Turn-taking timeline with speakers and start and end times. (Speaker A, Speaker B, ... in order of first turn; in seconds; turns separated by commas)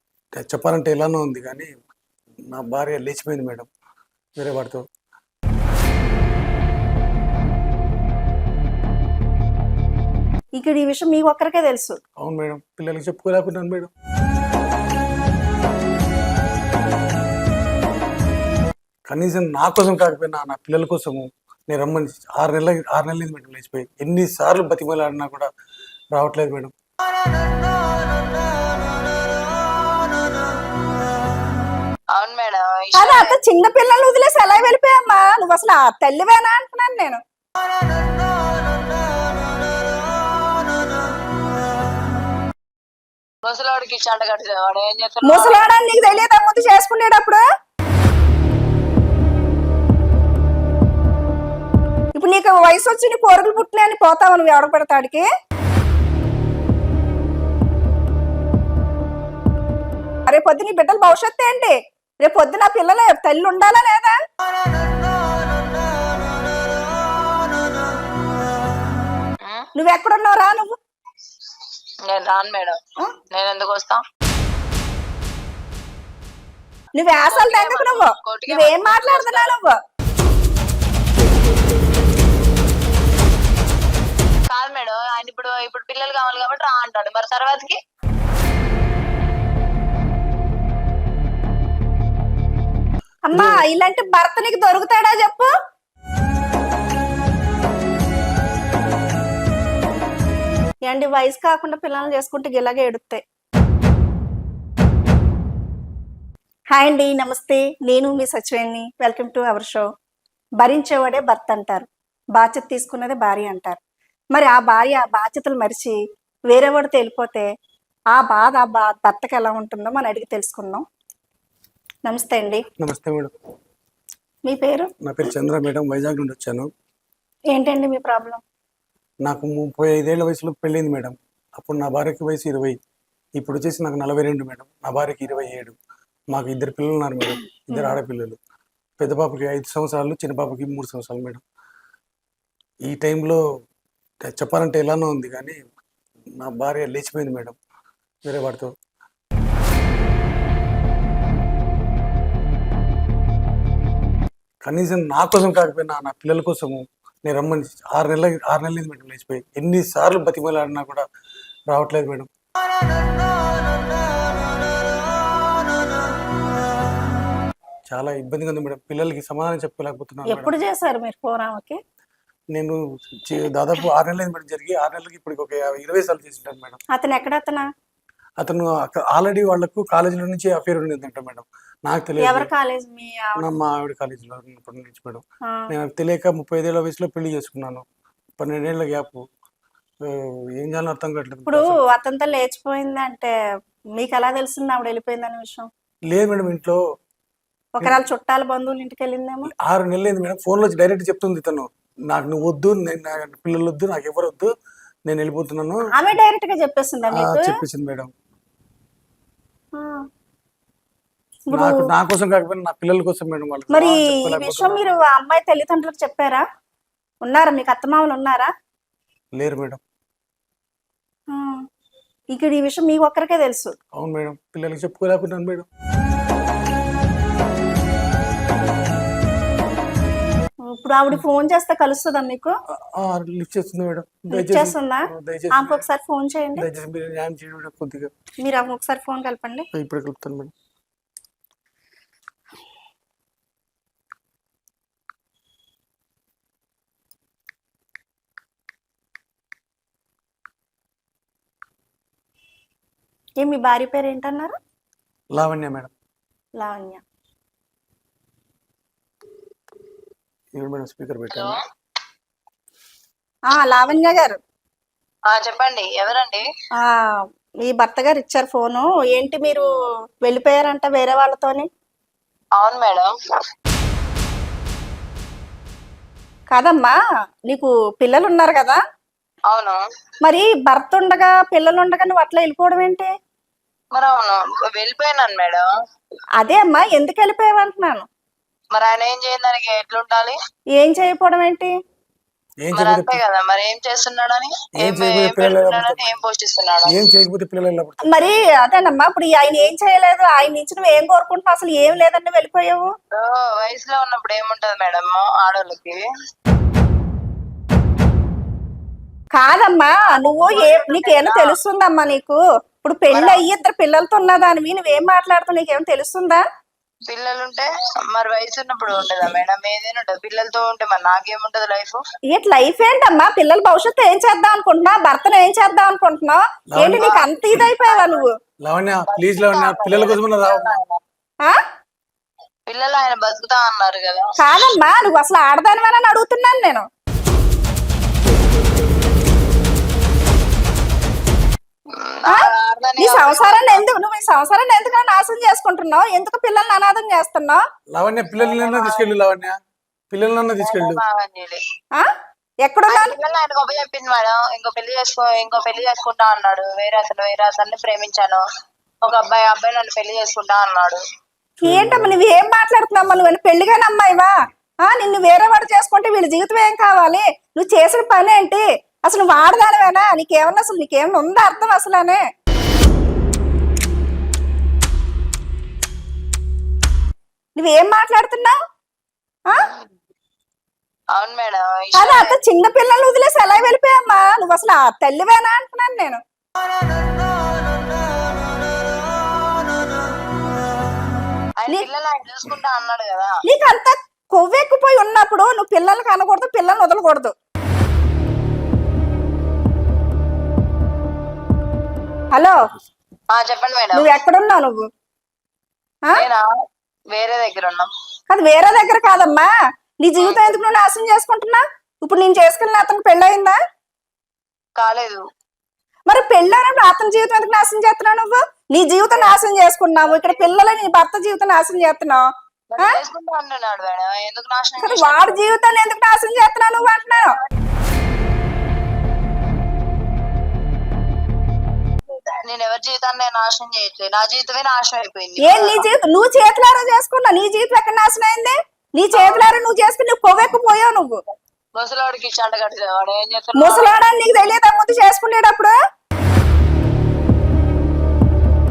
Speaker A: 0.3-1.7, Speaker A: 2.5-3.7, Speaker A: 4.4-4.8, Speaker B: 10.6-12.0, Speaker A: 12.2-13.9, Speaker A: 19.1-25.5, Speaker A: 26.1-26.7, Speaker C: 32.1-33.4, Speaker B: 33.0-37.2, Speaker C: 43.4-45.6, Speaker B: 45.2-47.4, Speaker B: 52.2-55.3, Speaker B: 60.3-64.2, Speaker C: 69.4-69.7, Speaker B: 69.8-70.8, Speaker C: 72.1-72.8, Speaker C: 73.3-74.0, Speaker B: 77.0-79.8, Speaker C: 77.3-79.5, Speaker C: 84.5-87.8, Speaker B: 93.3-95.5, Speaker A: 93.3-93.6, Speaker B: 100.9-103.2, Speaker B: 106.7-109.8, Speaker B: 110.6-113.8, Speaker B: 114.3-116.0, Speaker B: 116.5-117.5, Speaker B: 118.1-120.8, Speaker B: 122.1-122.6, Speaker A: 122.8-123.3, Speaker B: 124.5-124.9, Speaker A: 125.0-126.7, Speaker B: 127.5-128.4, Speaker A: 129.2-132.8, Speaker A: 133.4-135.8, Speaker A: 136.3-138.4, Speaker B: 137.3-138.0, Speaker A: 139.0-141.4, Speaker A: 142.9-143.4, Speaker A: 144.2-145.6, Speaker A: 146.4-147.6, Speaker A: 148.2-148.7, Speaker A: 154.6-161.0, Speaker A: 161.7-162.3, Speaker A: 167.9-170.5, Speaker B: 170.3-171.8, Speaker A: 172.5-176.8, Speaker B: 176.9-177.7, Speaker A: 178.4-182.5, Speaker B: 182.2-183.4, Speaker A: 183.4-187.8, Speaker A: 188.4-189.2, Speaker A: 190.1-191.8, Speaker B: 191.5-193.3, Speaker B: 194.0-195.7, Speaker A: 196.1-196.8, Speaker B: 197.8-199.5, Speaker A: 199.5-204.5, Speaker A: 205.1-205.8, Speaker B: 205.9-207.5, Speaker A: 207.1-208.1, Speaker B: 209.8-210.1, Speaker B: 211.5-211.8, Speaker A: 211.5-214.9, Speaker B: 213.7-216.4, Speaker B: 217.2-218.5, Speaker A: 219.4-219.8, Speaker B: 221.3-221.6, Speaker B: 222.3-223.7, Speaker A: 224.0-225.7, Speaker B: 230.7-232.6, Speaker A: 232.8-235.9, Speaker B: 234.3-236.7, Speaker A: 236.6-238.1, Speaker B: 238.4-239.7, Speaker A: 239.7-240.5, Speaker B: 253.4-254.6, Speaker A: 255.3-255.9, Speaker B: 256.6-257.0, Speaker A: 260.6-261.6, Speaker C: 261.3-261.6, Speaker B: 263.5-264.4, Speaker C: 265.3-266.4, Speaker B: 266.8-269.7, Speaker B: 270.2-271.7, Speaker C: 272.6-273.1, Speaker B: 276.5-276.9, Speaker B: 277.5-278.8, Speaker C: 279.5-279.8, Speaker B: 280.2-283.1, Speaker C: 283.9-285.7, Speaker B: 286.4-288.1, Speaker C: 288.7-290.4, Speaker B: 290.8-291.7, Speaker A: 292.6-293.2, Speaker C: 292.8-296.9, Speaker A: 294.8-296.2, Speaker A: 296.9-298.2, Speaker B: 298.1-302.9, Speaker C: 303.1-306.0, Speaker B: 309.4-316.4, Speaker C: 310.1-311.6, Speaker C: 313.1-313.4, Speaker C: 317.1-322.0, Speaker B: 322.3-328.3, Speaker A: 326.7-327.3, Speaker C: 327.8-328.3, Speaker A: 328.6-330.8, Speaker C: 329.1-331.0, Speaker C: 332.7-334.4, Speaker B: 334.4-336.9, Speaker C: 342.0-343.8, Speaker B: 343.0-347.6, Speaker A: 347.9-349.6, Speaker C: 348.4-349.1, Speaker A: 350.1-351.0, Speaker C: 350.6-351.6, Speaker B: 352.6-353.1, Speaker C: 352.9-358.4, Speaker C: 359.0-361.0, Speaker B: 361.6-364.3, Speaker A: 361.6-362.2, Speaker B: 364.9-372.2, Speaker B: 377.6-378.6, Speaker C: 381.1-382.4, Speaker B: 382.0-386.2, Speaker C: 391.6-393.4, Speaker B: 393.4-397.3, Speaker C: 403.3-404.1, Speaker B: 403.9-404.9, Speaker C: 406.1-406.5, Speaker C: 407.1-407.9, Speaker B: 408.3-409.5, Speaker B: 410.0-413.6, Speaker C: 410.2-410.5, Speaker C: 414.8-415.2, Speaker B: 416.1-422.2, Speaker C: 419.1-419.4, Speaker C: 420.1-420.5, Speaker C: 422.7-425.4, Speaker B: 424.8-427.4, Speaker C: 432.1-435.9, Speaker B: 435.4-441.2, Speaker C: 439.1-439.5, Speaker C: 441.8-443.9, Speaker B: 443.6-445.8